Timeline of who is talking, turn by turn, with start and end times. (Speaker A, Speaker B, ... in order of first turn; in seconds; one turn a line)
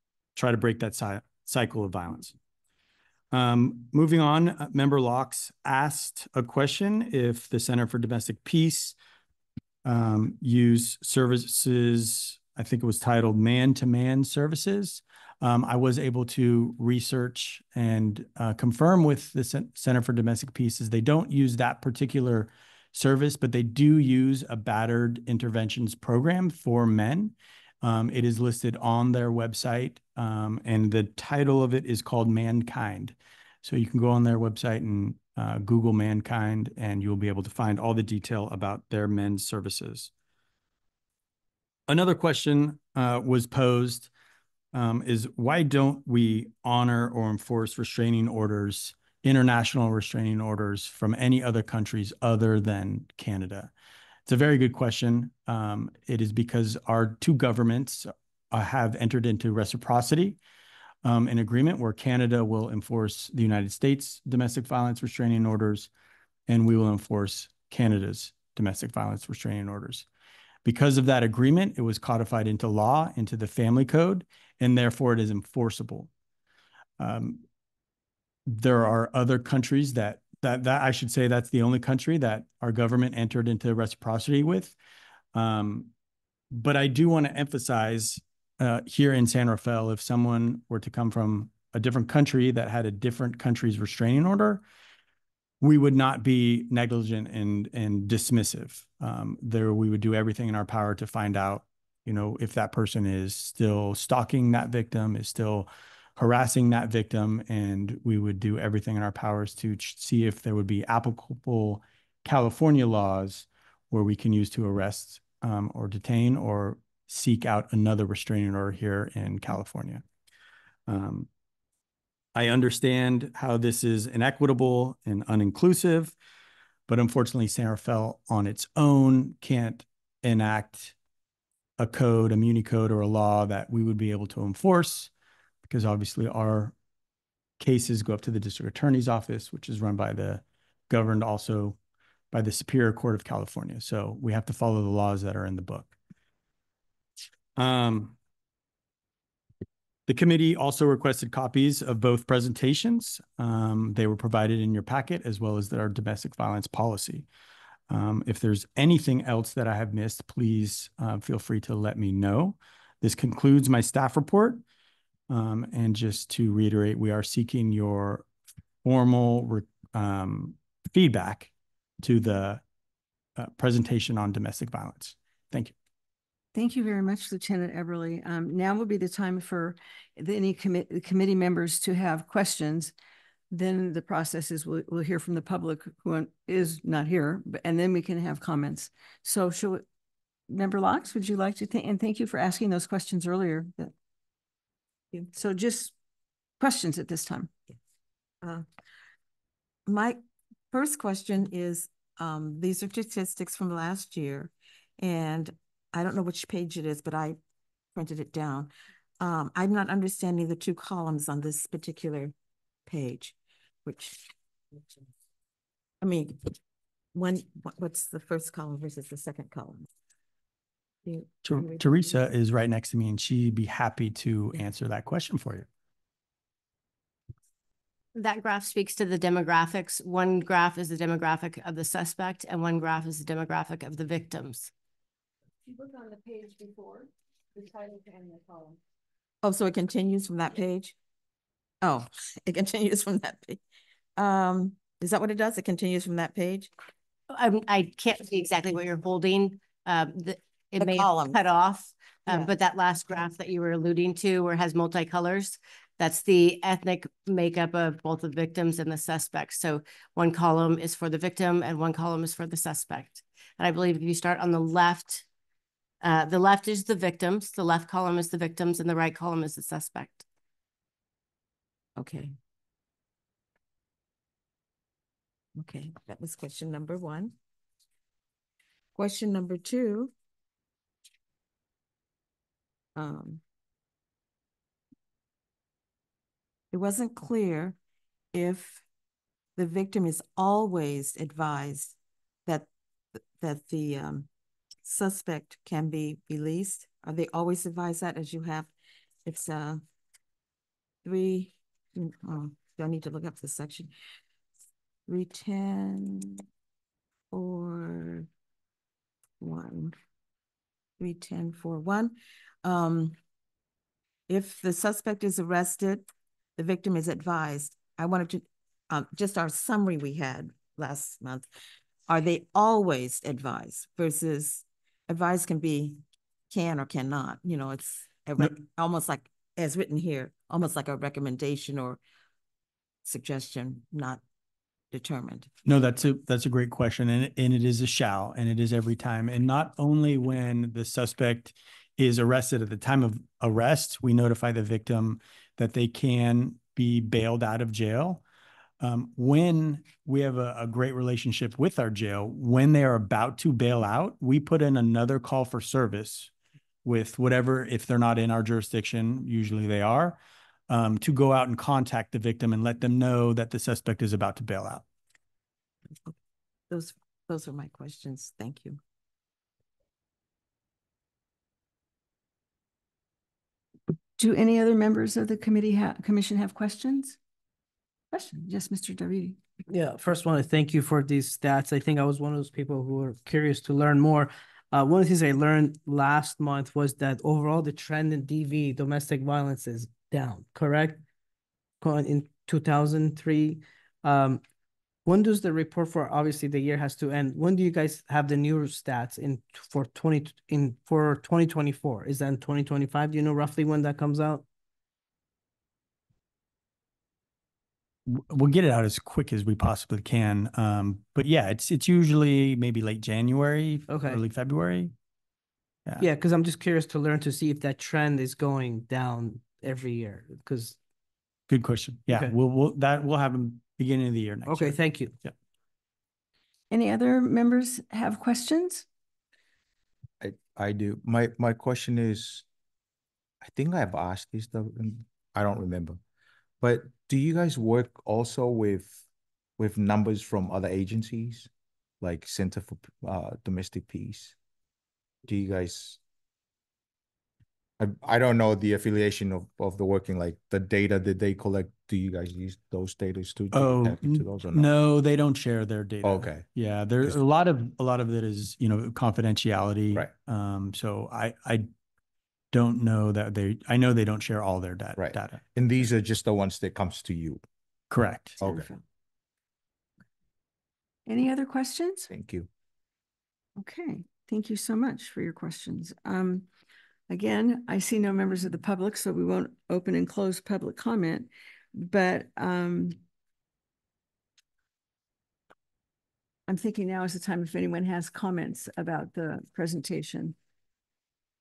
Speaker A: 0.4-2.4
Speaker A: 3.3-9.0
Speaker A: 9.8-40.1
Speaker A: 41.9-44.1
Speaker A: 44.7-53.7
Speaker A: 54.3-60.4
Speaker A: 61.0-65.9
Speaker A: 66.5-70.1
Speaker A: 70.7-76.1
Speaker A: 77.0-77.5
Speaker A: 78.5-84.8
Speaker A: 85.3-85.9
Speaker A: 86.5-94.6
Speaker A: 95.6-120.0
Speaker A: 120.9-121.3
Speaker A: 122.3-126.2
Speaker A: 126.9-131.0
Speaker A: 131.8-135.1
Speaker A: 135.7-136.8
Speaker A: 137.6-141.8
Speaker A: 142.3-145.9
Speaker A: 147.6-148.2
Speaker A: 150.1-157.3
Speaker A: 157.9-164.6
Speaker A: 165.3-168.3
Speaker A: 168.8-171.5
Speaker A: 172.0-172.6
Speaker A: 173.4-175.8
Speaker B: 176.5-182.9
Speaker B: 183.5-189.8
Speaker B: 190.5-193.9
Speaker B: 195.3-195.9
Speaker B: 196.6-197.5
Speaker C: 199.9-200.2
Speaker C: 200.7-207.4
Speaker C: 207.9-212.3
Speaker C: 212.9-214.3
Speaker C: 216.0-216.6
Speaker C: 217.1-219.9
Speaker C: 221.1-222.1
Speaker A: 221.4-225.7
Speaker D: 228.1-234.7
Speaker B: 235.7-238.8
Speaker C: 239.4-241.0
Speaker C: 241.8-243.6
Speaker C: 244.2-246.7
Speaker D: 247.3-265.2
Speaker C: 250.8-251.4
Speaker D: 266.0-270.2
Speaker C: 272.0-272.4
Speaker C: 275.6-277.4
Speaker C: 279.0-280.1
Speaker C: 283.0-283.4
Speaker C: 286.7-287.8
Speaker C: 288.3-288.8
Speaker C: 289.6-294.3
Speaker C: 294.8-298.7
Speaker C: 299.3-299.8
Speaker C: 301.0-303.9
Speaker C: 305.1-306.4
Speaker C: 307.3-308.3
Speaker C: 309.4-309.9
Speaker C: 311.0-313.2
Speaker C: 314.3-321.5
Speaker C: 322.1-332.0
Speaker C: 333.1-334.2
Speaker C: 334.9-335.5
Speaker A: 335.6-348.2
Speaker A: 348.8-356.3
Speaker A: 356.8-364.9
Speaker C: 366.7-368.8
Speaker B: 374.2-377.2
Speaker B: 378.1-379.4
Speaker E: 379.7-391.0
Speaker E: 391.8-394.4
Speaker E: 395.1-404.4
Speaker A: 408.1-414.9
Speaker E: 413.9-414.2
Speaker E: 416.0-420.8
Speaker A: 421.5-425.3
Speaker E: 422.1-422.3
Speaker E: 424.5-425.1
Speaker B: 426.7-428.9
Speaker F: 430.2-432.4
Speaker F: 433.4-436.0
Speaker F: 436.6-439.0
Speaker F: 439.6-441.5
Speaker F: 442.0-444.4
Speaker F: 445.2-446.0
Speaker F: 447.8-454.7
Speaker A: 453.5-461.7
Speaker F: 456.0-456.5
Speaker A: 462.5-465.4
Speaker F: 465.0-467.4
Speaker A: 467.9-468.4
Speaker F: 468.4-468.7
Speaker B: 468.4-468.8
Speaker B: 471.1-472.1
Speaker F: 472.1-472.5
Speaker B: 473.6-476.5
Speaker B: 477.1-483.0
Speaker B: 486.5-490.4